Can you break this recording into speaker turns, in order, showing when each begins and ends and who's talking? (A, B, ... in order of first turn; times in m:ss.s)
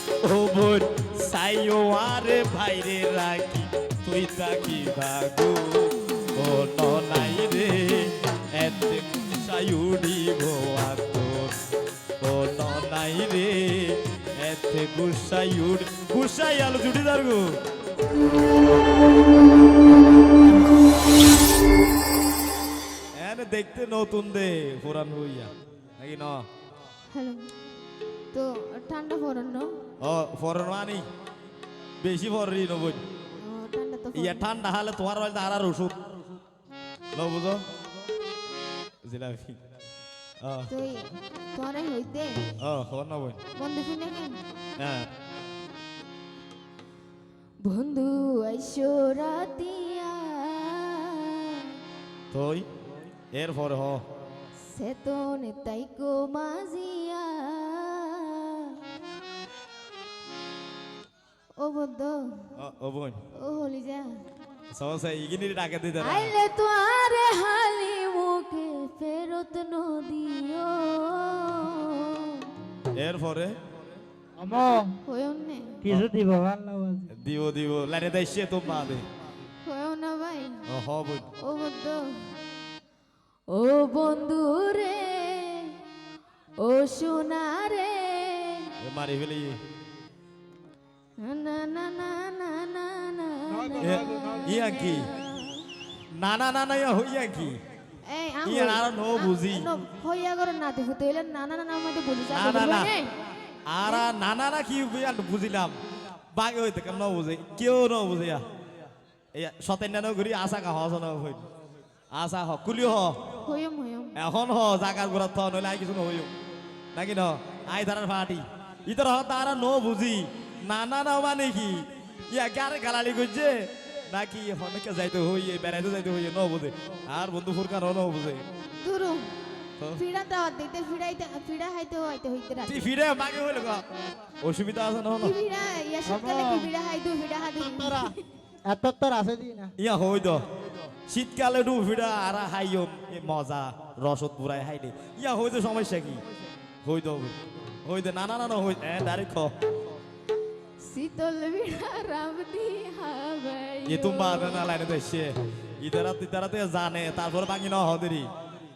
0:00.2-0:11.6 A
0:12.2-0:17.4 A
0:23.2-0:26.4 A
0:27.1-0:27.5 B
0:28.3-0:29.7 B
0:30.0-0:31.0 A
0:32.0-0:33.0 A
0:33.4-0:34.5 B
0:34.1-0:36.0 A
0:37.1-0:37.6 A
0:39.0-0:39.6 A
0:40.4-0:40.7 A
0:40.7-0:42.5 B
0:42.6-0:43.4 A
0:43.6-0:44.4 B
0:44.8-0:45.1 A
0:47.6-0:51.7 B
0:52.3-0:52.7 A
0:53.3-0:54.0 A
0:54.6-0:58.8 B
1:01.6-1:02.4 B
1:02.6-1:03.2 A
1:03.3-1:04.1 B
1:04.7-1:06.3 A
1:06.0-1:12.5 B
1:12.9-1:13.6 A
1:14.4-1:15.0 C
1:15.0-1:15.8 B
1:15.8-1:17.1 C
1:17.1-1:19.1 A
1:19.6-1:20.6 B
1:20.7-1:21.3 A
1:21.4-1:22.1 B
1:23.5-1:25.8 B
1:26.6-1:28.7 B
1:28.8-1:29.6 A
1:31.2-1:35.7 B
1:33.6-1:34.4 C
1:33.8-1:35.1 A
1:36.1-1:37.6 A
1:38.0-1:43.1 B
1:38.4-1:39.7 A
1:42.3-1:42.9 A
1:43.7-1:45.7 A
1:46.3-1:48.4 A
1:49.4-1:51.4 A
1:52.1-1:53.2 A
1:53.4-1:54.2 B
1:54.2-1:56.3 A
1:57.0-2:08.4 A
2:08.8-2:09.2 B
2:10.0-2:12.9 B
2:12.7-2:13.8 A
2:14.4-2:15.4 A
2:15.2-2:18.2 B
2:16.1-2:16.7 C
2:17.7-2:18.1 C
2:18.7-2:19.7 C
2:19.8-2:20.4 A
2:21.1-2:26.2 A
2:26.8-2:27.3 A
2:27.8-2:29.5 A
2:30.8-2:34.6 B
2:33.9-2:38.3 A